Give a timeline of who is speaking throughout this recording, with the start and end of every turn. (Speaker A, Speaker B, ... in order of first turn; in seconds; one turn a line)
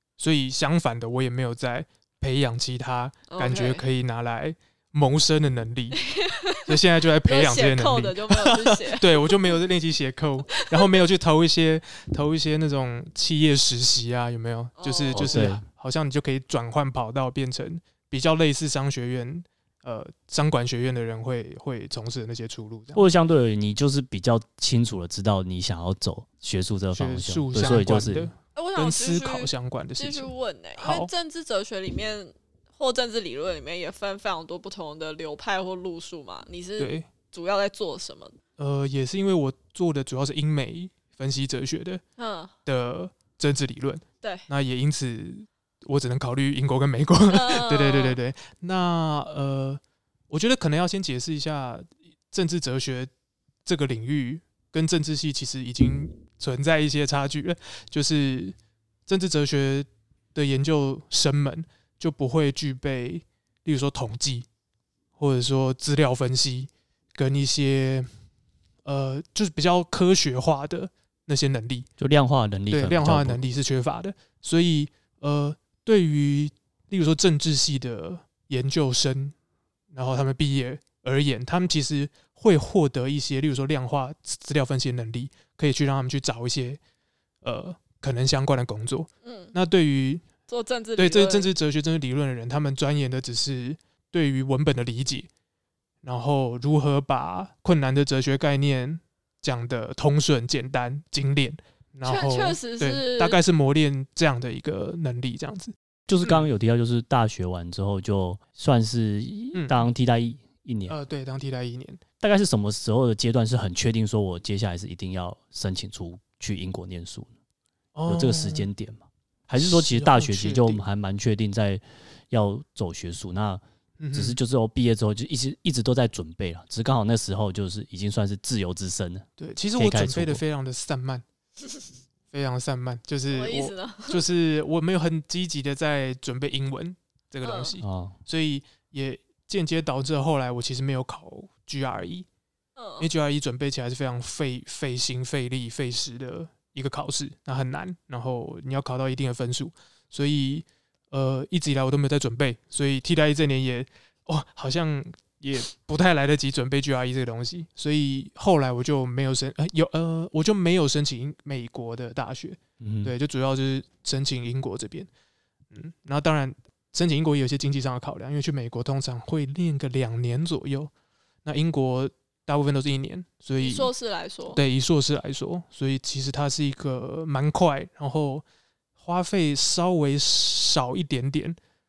Speaker A: 0.2-6.0
Speaker B: 3.3-3.8
Speaker B: 6.0-9.4
Speaker A: 6.7-23.0
Speaker B: 10.5-10.8
Speaker B: 14.8-15.3
Speaker C: 15.1-15.6
Speaker C: 22.9-28.3
Speaker A: 26.9-31.1
Speaker B: 28.5-38.4
Speaker A: 36.8-37.1
Speaker A: 38.6-42.0
Speaker B: 42.2-42.5
Speaker A: 42.6-53.1
Speaker B: 47.3-48.2
Speaker A: 53.6-58.5
Speaker A: 59.1-64.5
Speaker A: 65.2-68.1
Speaker A: 68.8-71.9
Speaker C: 72.0-73.4
Speaker A: 72.7-79.3
Speaker A: 79.9-86.8
Speaker A: 87.4-90.2
Speaker B: 89.2-89.5
Speaker B: 90.5-91.5
Speaker A: 91.0-95.3
Speaker A: 96.0-106.5
Speaker B: 102.0-103.4
Speaker C: 106.1-110.9
Speaker A: 109.5-109.9
Speaker A: 110.9-112.0
Speaker C: 112.2-117.3
Speaker A: 117.9-118.7
Speaker C: 118.1-123.6
Speaker A: 119.5-120.8
Speaker A: 124.0-124.4
Speaker C: 124.1-130.4
Speaker A: 129.4-131.2
Speaker A: 132.3-142.3
Speaker B: 133.3-134.2
Speaker B: 137.4-137.7
Speaker C: 137.8-138.2
Speaker B: 142.8-143.1
Speaker A: 143.0-165.1
Speaker C: 162.8-163.1
Speaker A: 165.7-170.9
Speaker A: 171.4-173.9
Speaker B: 173.6-174.6
Speaker A: 174.5-178.4
Speaker A: 179.0-181.6